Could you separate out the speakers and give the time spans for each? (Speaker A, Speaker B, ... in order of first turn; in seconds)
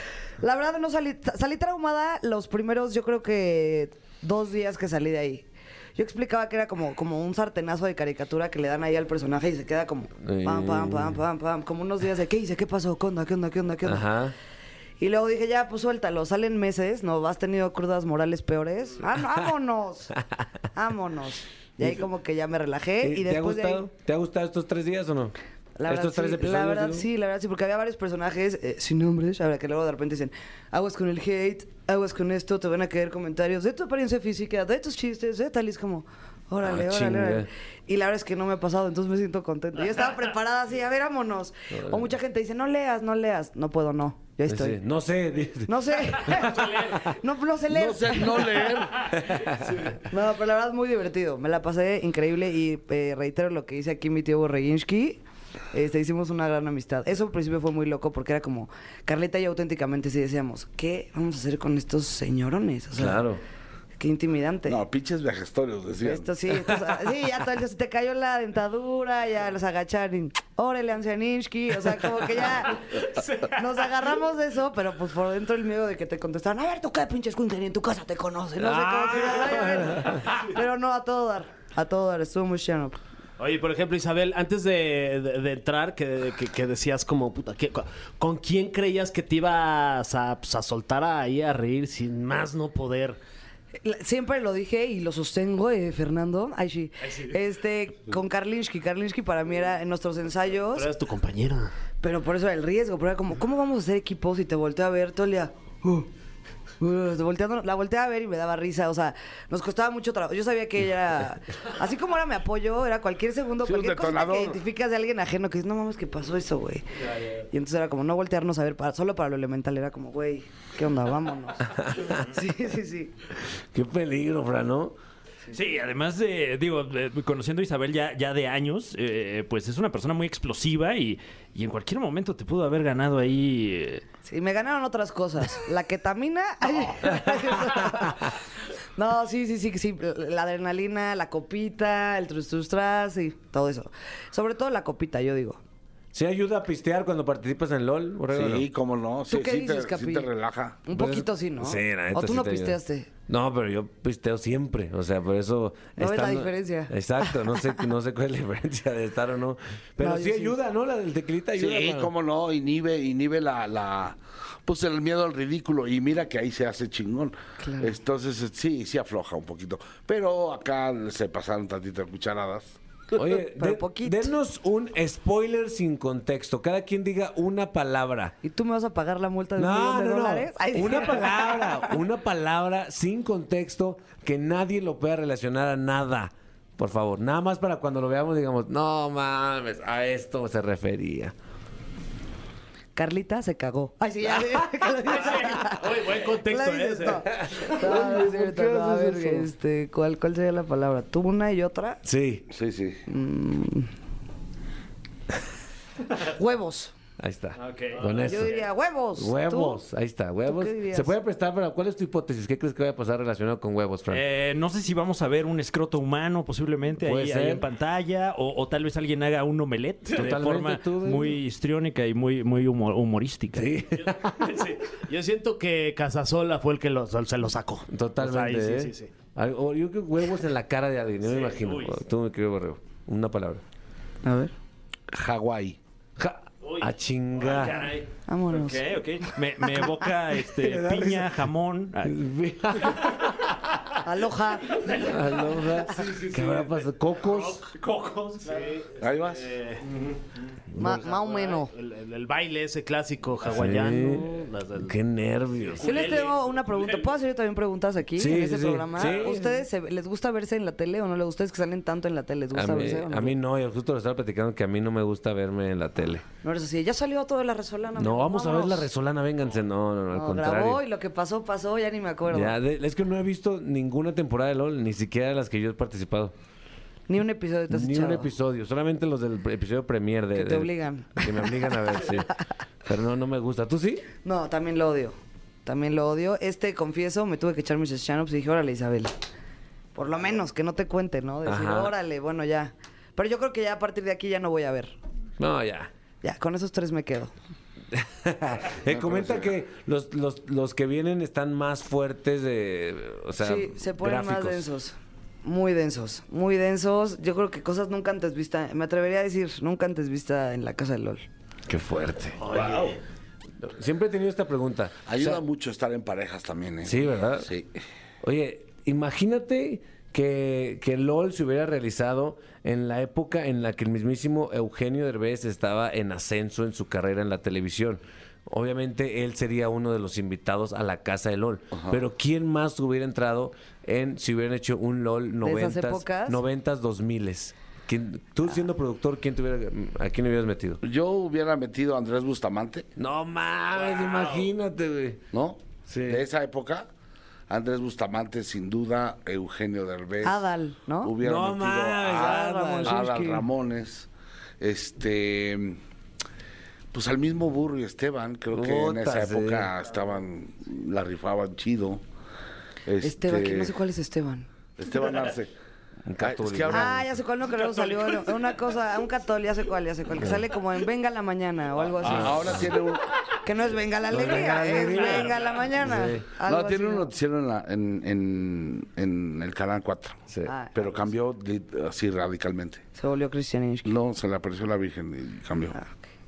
Speaker A: 0.4-14.1, 15.0-20.2, 20.7-23.8, 25.8-44.8, 45.6-48.8, 50.0-55.2, 55.7-63.2, 64.0-64.8, 66.0-83.0, 93.8-100.9, 102.0-106.1, 106.8-123.1, 134.2-138.4, 138.9-145.6, 149.3-150.3, 150.8-153.1, 156.0-157.8, 160.0-160.6, 167.6-167.9, 173.2-174.3, 178.4-182.0, 192.9-202.0, 203.1-203.9, 206.2-206.9, 208.2-209.8, 210.4-211.1, 234.2-234.5, 238.3-238.9, 239.6-239.9, 244.0-244.8, 250.8-251.7, 255.8-263.3, 266.4-268.9, 270.1-272.6, 277.1-278.3, 280.3-282.2, 284.1-289.1, 289.9-294.9, 296.2-297.3, 303.4-311.2, 335.4-336.4, 350.2-351.1, 352.1-353.4, 363.0-364.5, 366.7-372.6, 373.4-377.1, 380.4-381.0, 382.9-383.9
Speaker B: 10.2-11.2, 13.8-14.3, 23.0-25.4, 25.9-27.1, 36.6-37.5, 41.7-42.1, 44.5-47.0, 49.2-49.7, 62.9-63.4, 78.6-80.3, 121.9-122.1, 123.7-125.0, 146.1-148.7, 150.9-162.1, 173.1-178.3, 179.6-191.3, 197.5-199.2, 202.0-202.5, 207.2-214.2, 217.0-217.6, 220.2-221.4, 223.5-224.7, 227.9-233.6, 236.2-237.9, 240.5-241.4, 242.0-243.4, 244.8-247.6, 253.4-256.2, 258.1-259.6, 262.5-266.2, 268.0-270.8, 272.3-276.3, 277.7-282.3, 282.9-284.1, 291.4-291.9, 295.4-295.9, 297.9-304.7, 311.7-312.4, 313.6-315.4, 316.8-317.5, 318.2-340.8, 343.0-345.2, 345.9-346.2, 351.2-353.2, 358.5-359.7, 366.1-367.1, 370.2-370.4, 372.0-372.7, 374.1-376.3
Speaker C: 47.7-49.1, 64.7-66.3, 113.6-114.6, 148.3-150.8, 161.6-172.8, 197.8-198.9, 202.5-203.0, 235.1-235.8, 249.0-249.6, 298.9-299.5, 312.5-312.8, 315.1-317.7, 331.7-332.0, 340.8-342.9, 345.3-346.9, 347.5-350.4, 351.0-354.1, 354.6-355.8, 356.9-362.0, 362.8-363.7, 364.8-365.5, 366.2-367.0, 372.0-373.1, 376.3-382.8, 383.8-385.8
Speaker D: 83.4-93.2, 97.0-97.4, 100.7-101.7, 195.1-197.3, 223.9-229.1, 231.5-231.8, 236.6-236.9, 246.0-246.6, 247.3-247.6, 248.4-249.8, 250.8-254.9, 255.7-257.0, 259.1-259.3, 312.4-312.9
Speaker E: 125.5-134.0, 207.6-208.3, 214.1-223.7, 237.4-242.2, 242.8-243.1, 244.7-245.3, 247.7-248.6, 344.0-344.4